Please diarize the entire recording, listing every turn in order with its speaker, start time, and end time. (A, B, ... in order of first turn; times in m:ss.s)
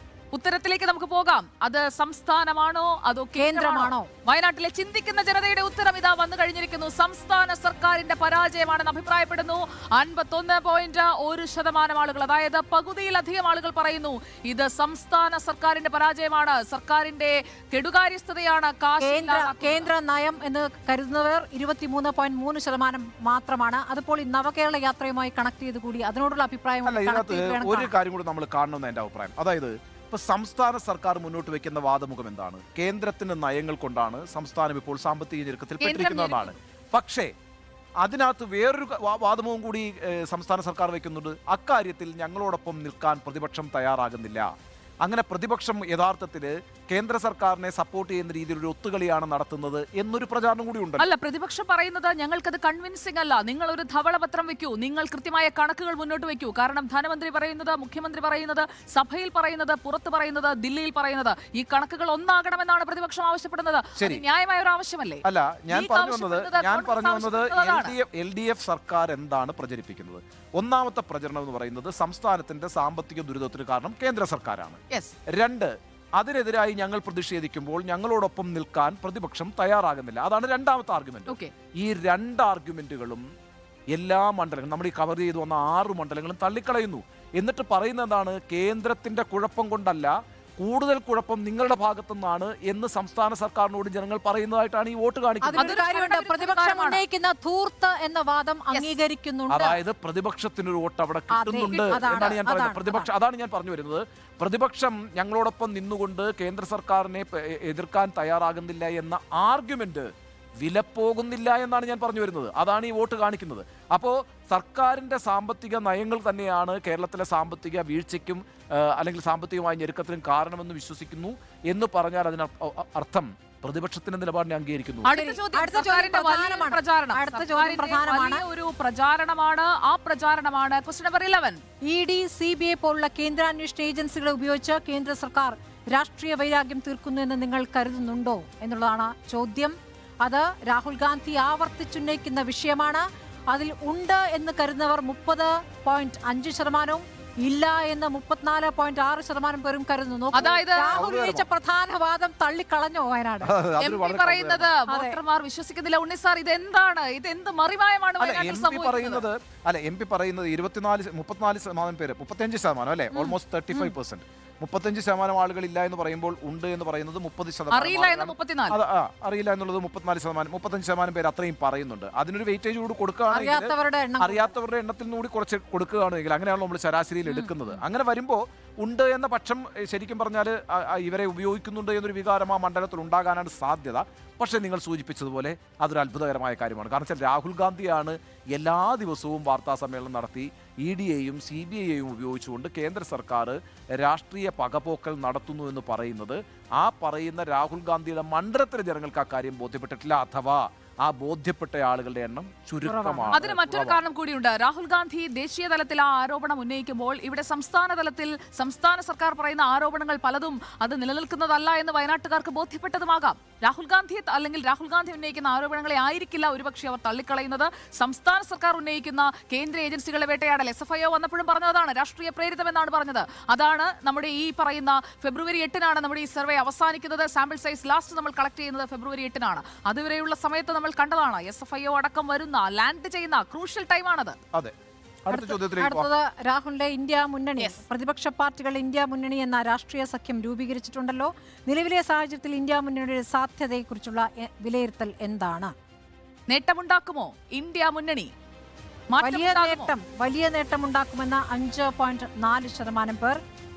0:00.3-0:19.9 A
0:03.4-0:04.1 B
0:19.0-0:27.9 B
0:26.8-0:37.3 C
0:35.8-0:36.6 A
0:38.0-0:44.5 C
0:45.0-0:51.1 C
0:51.0-1:07.9 A
1:04.0-1:04.2 C
1:05.2-1:23.2 C
1:23.9-1:35.8 C
1:35.4-1:39.8 B
1:35.6-1:37.0 A
1:39.5-1:50.1 C
1:41.3-1:43.1 B
1:50.6-2:05.1 C
2:05.0-2:11.6 A
2:05.1-2:08.4 B
2:11.9-2:33.5 B
2:30.3-2:31.1 A
2:30.9-2:31.4 C
2:33.4-2:34.7 C
2:33.8-2:39.2 A
2:34.9-2:35.2 B
2:38.2-3:24.0 C
2:47.7-2:48.8 A
2:53.3-2:54.5 B
2:57.3-2:57.5 A
3:22.8-3:23.3 B
3:23.3-3:54.4 A
3:55.2-3:56.1 C
3:55.3-4:05.7 B
4:06.5-4:08.3 A
4:09.1-4:09.9 A
4:09.2-4:13.4 B